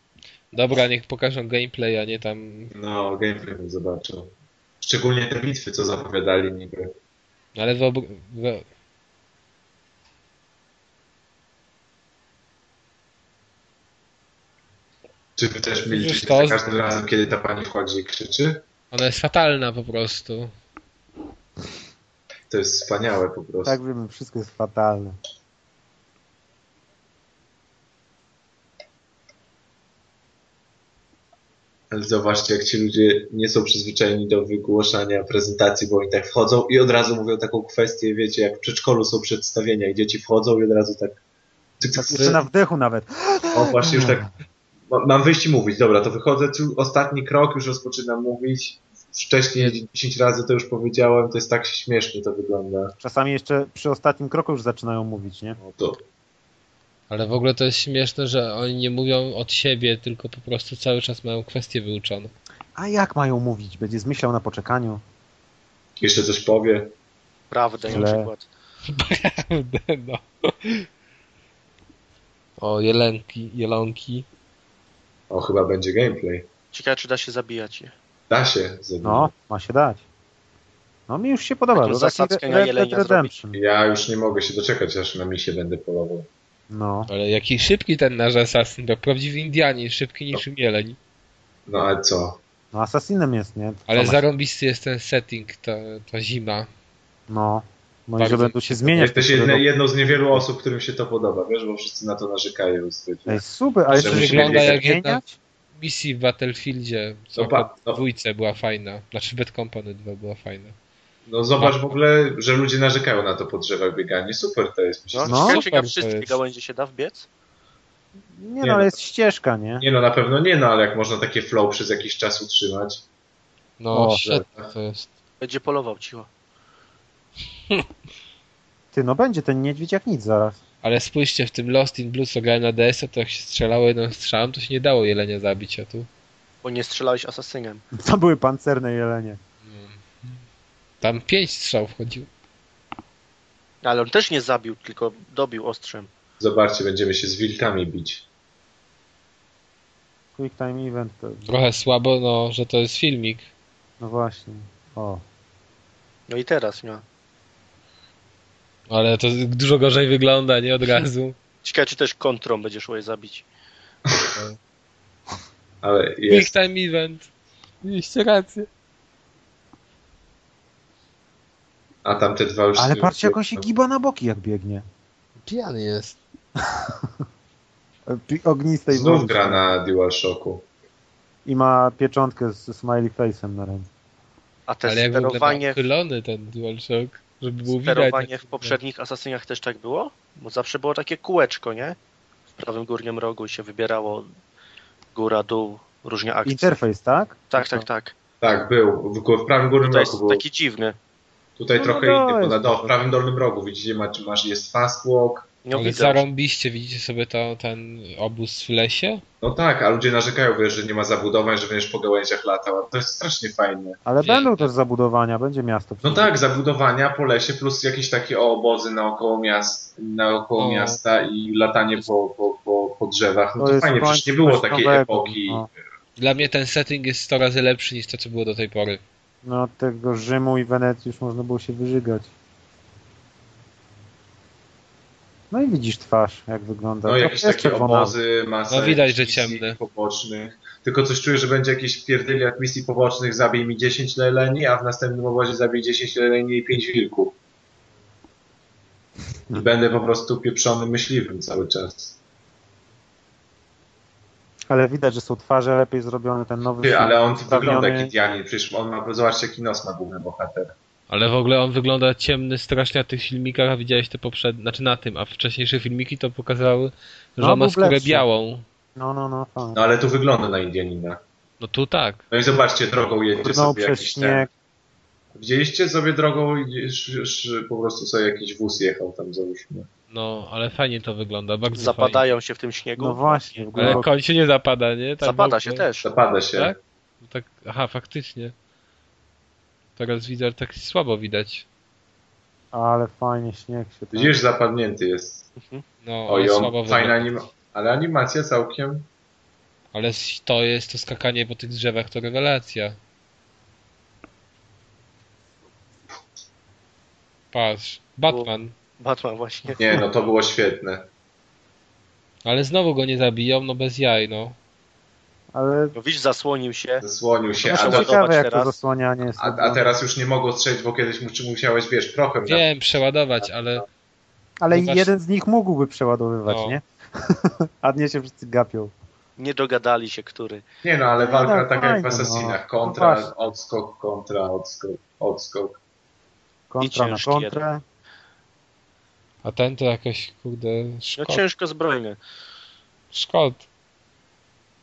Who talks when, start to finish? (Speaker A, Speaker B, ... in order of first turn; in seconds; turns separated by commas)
Speaker A: 0.5-2.7, Speaker B: 2.7-6.9, Speaker A: 7.5-8.6, Speaker B: 15.4-18.6, Speaker A: 15.9-16.7, Speaker A: 18.9-20.5, Speaker B: 22.5-23.8, Speaker C: 23.6-25.2, Speaker B: 31.9-41.2, Speaker B: 41.8-42.4, Speaker C: 42.0-44.3, Speaker A: 42.1-42.4, Speaker B: 43.5-44.3, Speaker B: 44.9-52.9, Speaker C: 53.0-55.6, Speaker B: 55.6-56.0, Speaker A: 57.1-62.3, Speaker C: 62.8-65.0, Speaker B: 66.0-66.9, Speaker D: 67.5-68.5, Speaker C: 67.9-68.3, Speaker A: 68.9-70.8, Speaker A: 72.6-74.2, Speaker B: 75.3-76.5, Speaker D: 76.7-77.9, Speaker B: 78.3-79.3, Speaker C: 79.0-80.0, Speaker C: 81.1-83.6, Speaker D: 81.7-83.3, Speaker B: 83.5-86.3, Speaker C: 86.7-87.1, Speaker A: 87.1-91.0, Speaker B: 91.7-92.4, Speaker C: 92.7-94.2, Speaker A: 93.9-96.7, Speaker C: 97.3-99.7, Speaker A: 98.2-98.9, Speaker B: 98.9-104.8, Speaker C: 103.3-105.4, Speaker A: 103.9-105.2, Speaker A: 105.8-110.7, Speaker B: 107.3-108.0, Speaker B: 111.2-115.4, Speaker A: 111.6-111.9, Speaker D: 115.1-117.3, Speaker C: 115.2-115.6, Speaker A: 115.3-116.3, Speaker C: 118.4-119.9, Speaker B: 118.6-118.9, Speaker B: 119.8-123.0, Speaker A: 123.8-125.1, Speaker C: 123.9-124.2, Speaker B: 124.2-124.7, Speaker D: 125.4-126.3, Speaker C: 128.9-130.6, Speaker A: 130.8-136.1, Speaker D: 136.6-137.8, Speaker C: 138.0-139.4, Speaker A: 139.7-140.3, Speaker A: 141.0-142.3, Speaker D: 143.8-146.1, Speaker B: 146.4-148.2, Speaker C: 150.3-151.5, Speaker A: 151.5-153.5, Speaker C: 154.0-155.2, Speaker D: 156.3-157.0, Speaker A: 158.9-161.3, Speaker D: 161.6-163.4, Speaker B: 165.8-166.5, Speaker A: 166.3-167.3, Speaker A: 167.8-168.7, Speaker B: 172.0-173.7, Speaker C: 172.8-174.8, Speaker A: 175.4-176.2, Speaker C: 178.1-179.7, Speaker B: 178.9-180.7, Speaker C: 181.4-183.9, Speaker D: 184.7-185.8, Speaker A: 184.8-188.8, Speaker D: 187.7-192.0, Speaker D: 192.6-194.3, Speaker D: 195.1-196.8, Speaker C: 196.4-197.8, Speaker D: 197.5-198.1, Speaker B: 198.4-200.4, Speaker D: 199.8-201.0, Speaker B: 201.6-205.5, Speaker C: 201.8-202.9, Speaker D: 205.6-206.2, Speaker A: 205.7-209.2, Speaker B: 209.4-214.0, Speaker C: 214.0-216.3, Speaker A: 214.2-214.7, Speaker B: 216.0-225.7, Speaker A: 220.6-221.0, Speaker C: 223.6-225.7, Speaker A: 226.2-229.0, Speaker C: 229.4-232.3, Speaker C: 235.5-238.1, Speaker B: 237.1-247.4, Speaker A: 238.7-239.8, Speaker B: 249.5-252.2, Speaker C: 254.7-258.1, Speaker B: 256.8-260.7, Speaker A: 261.1-268.6, Speaker C: 267.4-268.2, Speaker C: 268.9-269.8, Speaker B: 269.7-271.2, Speaker A: 271.6-272.2, Speaker B: 272.3-274.5, Speaker C: 273.4-274.5, Speaker B: 275.3-279.9, Speaker A: 280.1-282.2, Speaker D: 281.8-284.0, Speaker C: 283.0-284.1, Speaker A: 283.7-285.9, Speaker D: 285.2-286.1, Speaker B: 286.0-286.7, Speaker A: 286.5-288.5, Speaker A: 290.0-291.6, Speaker C: 292.7-294.4, Speaker B: 294.1-295.5, Speaker D: 295.6-295.8, Speaker A: 296.0-297.3, Speaker B: 296.3-299.1, Speaker A: 299.9-303.0, Speaker A: 307.5-308.7, Speaker D: 308.3-309.8, Speaker B: 309.7-311.1, Speaker A: 312.4-314.6, Speaker C: 315.5-315.9, Speaker D: 315.9-317.0, Speaker B: 317.0-318.1, Speaker D: 317.6-318.8, Speaker C: 317.6-319.9, Speaker B: 319.4-322.6, Speaker A: 322.4-323.9, Speaker C: 324.6-328.9, Speaker A: 324.7-325.1, Speaker A: 326.5-326.8, Speaker D: 329.4-330.6, Speaker B: 330.8-335.8, Speaker C: 331.2-333.3, Speaker C: 336.7-337.8, Speaker D: 336.8-337.6, Speaker A: 339.4-341.4, Speaker D: 341.2-342.2, Speaker A: 343.1-343.6